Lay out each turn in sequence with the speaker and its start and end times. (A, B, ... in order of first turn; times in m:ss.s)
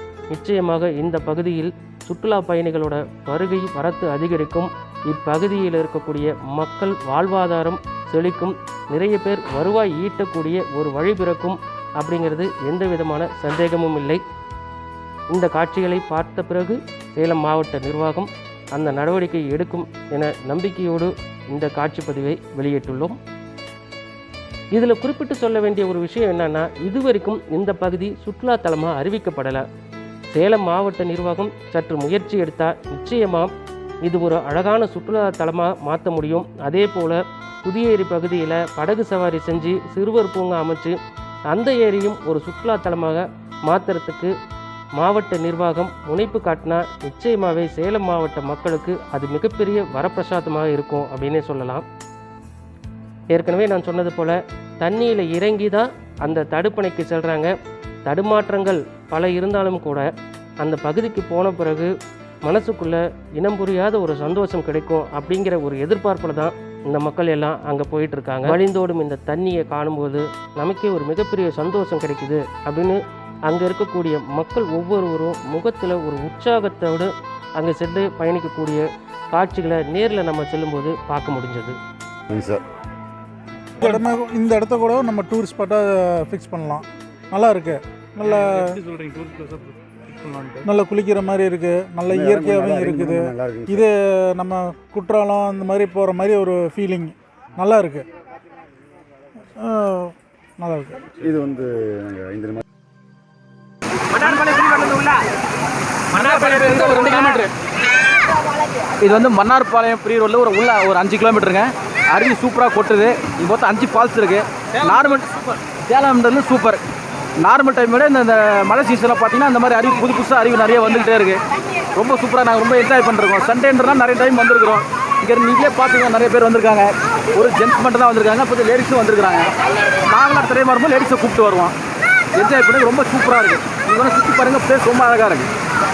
0:00.3-0:14.2 A
0:15.3-0:23.2 A
0:24.7-0:29.6 A
0:30.3-0:33.5 A
0:34.0-0:41.0 A
0:41.5-0:44.3 A
0:45.0-0:51.8 A
0:53.3-0:57.5 A
0:58.0-1:00.1 A
1:00.6-1:01.9 A
1:02.4-1:21.8 A
1:22.3-1:22.6 B
1:23.8-1:28.8 C
1:28.2-1:30.7 D
1:30.6-1:38.1 C
1:32.1-1:33.8 B
1:39.6-1:41.0 C
1:41.2-1:42.6 B
1:44.1-1:45.2 E
1:46.1-1:47.5 E
1:49.0-1:56.8 E
1:57.4-2:01.4 E
2:01.9-2:11.8 E
2:12.3-2:15.5 E